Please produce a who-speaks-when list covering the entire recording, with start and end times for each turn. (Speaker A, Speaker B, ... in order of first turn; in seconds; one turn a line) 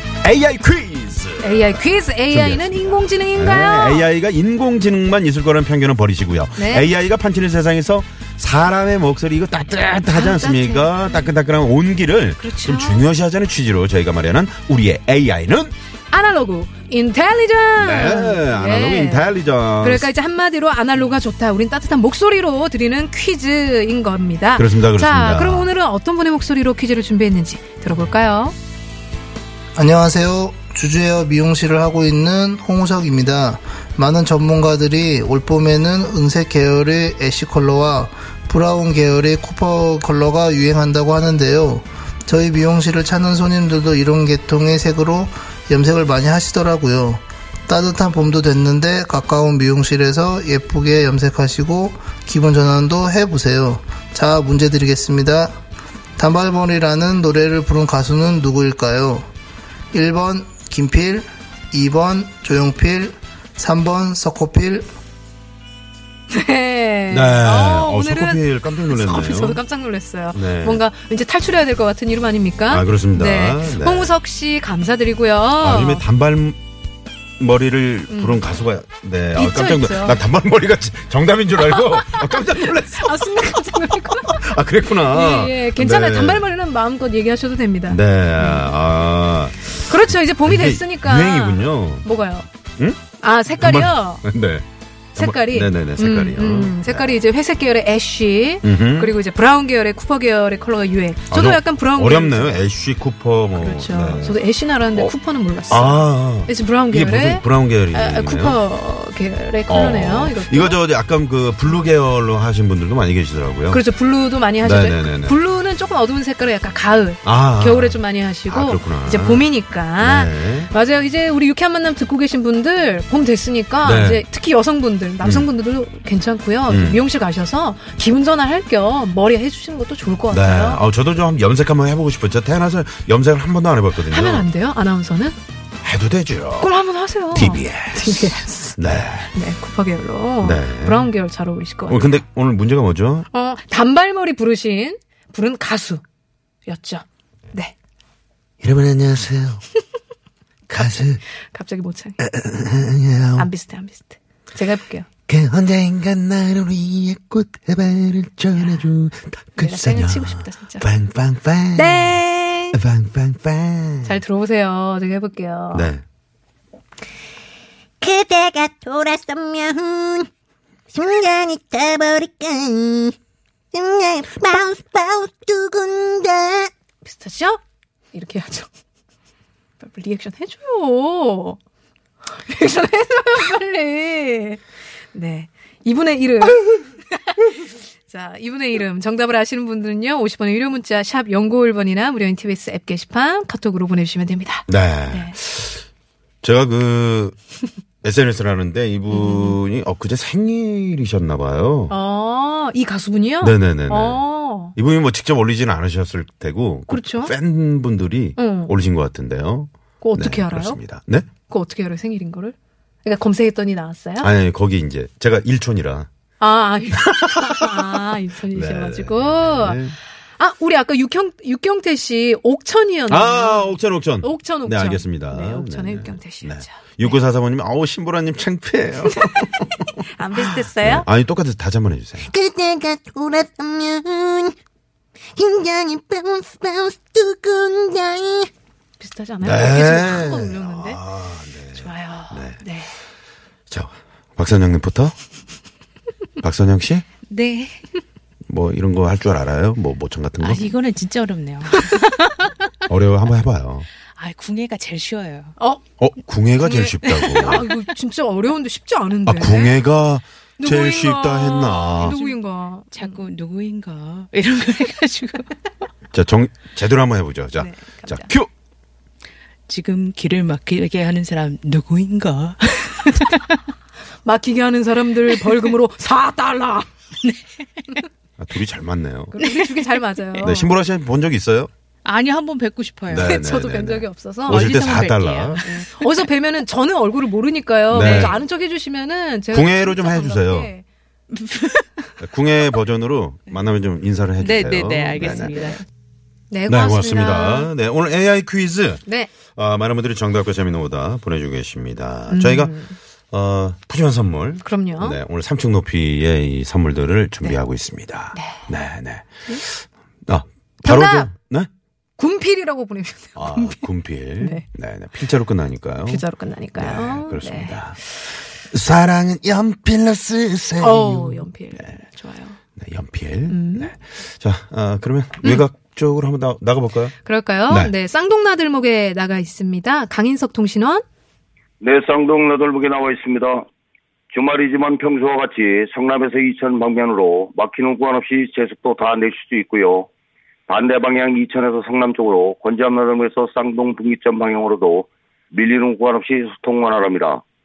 Speaker A: 0.2-15.7
Speaker B: 1.4-4.1
Speaker B: 6.6-6.9
Speaker B: 10.1-11.3
Speaker B: 12.4-13.0
Speaker B: 16.1-28.5
Speaker A: 17.8-20.1
Speaker A: 24.6-25.7
Speaker C: 29.8-55.5
Speaker C: 56.2-59.3
Speaker C: 59.9-64.9
Speaker B: 66.3-76.0
Speaker A: 67.1-69.6
Speaker A: 70.3-70.8
Speaker A: 72.7-74.1
Speaker A: 75.6-76.6
Speaker A: 77.4-86.5
Speaker B: 78.1-78.4
Speaker B: 79.3-80.2
Speaker B: 81.6-88.6
Speaker A: 87.9-92.0
Speaker B: 89.8-92.5
Speaker B: 93.2-94.2
Speaker A: 93.6-97.2
Speaker B: 95.2-102.6
Speaker A: 98.6-99.1
Speaker A: 101.3-104.4
Speaker B: 103.5-110.8
Speaker A: 105.7-108.6
Speaker A: 109.7-113.8
Speaker B: 113.7-130.8
Speaker A: 114.6-115.4
Speaker A: 117.2-120.7
Speaker A: 123.8-124.2
Speaker A: 125.2-125.5
Speaker A: 126.7-127.0
Speaker A: 130.3-134.4
Speaker B: 134.1-135.4
Speaker A: 135.8-136.7
Speaker B: 136.6-138.8
Speaker A: 137.3-139.3
Speaker B: 139.3-142.1
Speaker A: 140.4-141.1
Speaker A: 141.9-143.2
Speaker B: 143.3-146.0
Speaker B: 146.7-147.7
Speaker A: 148.6-149.6
Speaker A: 150.7-151.2
Speaker B: 151.5-152.2
Speaker A: 152.2-153.5
Speaker B: 153.3-155.1
Speaker A: 155.3-162.2
Speaker B: 159.6-160.8
Speaker B: 161.7-162.8
Speaker A: 162.7-164.2
Speaker B: 164.0-165.9
Speaker A: 165.7-166.0
Speaker D: 168.0-170.3
Speaker D: 170.9-173.1
Speaker D: 173.7-176.7
Speaker B: 177.0-177.6
Speaker B: 178.1-178.7
Speaker B: 179.8-181.6
Speaker B: 182.4-184.6
Speaker B: 185.1-187.5
Speaker B: 188.1-195.3
Speaker A: 194.7-195.8
Speaker A: 196.4-197.4
Speaker A: 198.0-201.9
Speaker B: 199.1-199.6
Speaker B: 201.9-204.8
Speaker A: 203.4-204.2
Speaker A: 204.7-211.3
Speaker B: 206.9-207.3
Speaker B: 208.4-208.7
Speaker B: 210.0-210.8
Speaker B: 211.5-214.3
Speaker A: 214.2-216.1
Speaker B: 216.4-219.8
Speaker A: 217.0-219.9
Speaker B: 220.4-227.2
Speaker A: 223.1-232.3
Speaker B: 229.1-231.1
Speaker D: 232.3-234.5
Speaker D: 235.3-238.5
Speaker B: 239.0-241.0
Speaker A: 239.4-242.6
Speaker B: 241.7-242.9
Speaker A: 243.7-245.2
Speaker A: 246.4-247.1
Speaker E: 247.3-247.8
Speaker A: 248.5-250.7
Speaker E: 250.4-252.1
Speaker A: 252.9-253.9
Speaker E: 254.1-255.5
Speaker A: 256.0-257.7
Speaker B: 256.6-259.8
Speaker E: 257.1-257.6
Speaker A: 259.2-262.2
Speaker B: 260.6-263.2
Speaker E: 261.9-262.4
Speaker E: 262.9-265.6
Speaker A: 266.1-268.5
Speaker B: 267.6-268.3
Speaker E: 269.7-273.6
Speaker B: 274.2-276.9
Speaker E: 277.2-278.0
Speaker A: 278.4-279.4
Speaker B: 279.3-280.7
Speaker E: 279.4-279.8
Speaker A: 280.4-281.7
Speaker E: 282.0-283.4
Speaker A: 283.1-285.6
Speaker B: 283.1-284.8
Speaker E: 284.5-286.2
Speaker B: 285.6-290.8
Speaker A: 287.9-288.4
Speaker E: 288.0-288.4
Speaker A: 289.5-290.7
Speaker E: 291.3-292.1
Speaker A: 292.2-295.6
Speaker E: 294.4-295.8
Speaker B: 296.5-297.7
Speaker A: 296.7-302.8
Speaker B: 299.1-299.3
Speaker B: 302.3-303.0
Speaker A: 303.3-311.7
Speaker B: 304.6-305.2
Speaker B: 308.3-308.6
Speaker B: 310.8-311.3
Speaker B: 312.2-313.8
Speaker A: 313.4-316.2
Speaker B: 314.4-314.6
Speaker B: 316.1-317.8
Speaker A: 316.8-318.0
Speaker A: 318.7-321.9
Speaker B: 320.8-322.6
Speaker A: 322.8-327.1
Speaker B: 323.5-323.9
Speaker B: 327.2-331.0
Speaker F: 331.8-333.6
Speaker F: 334.3-340.1
Speaker F: 340.7-347.4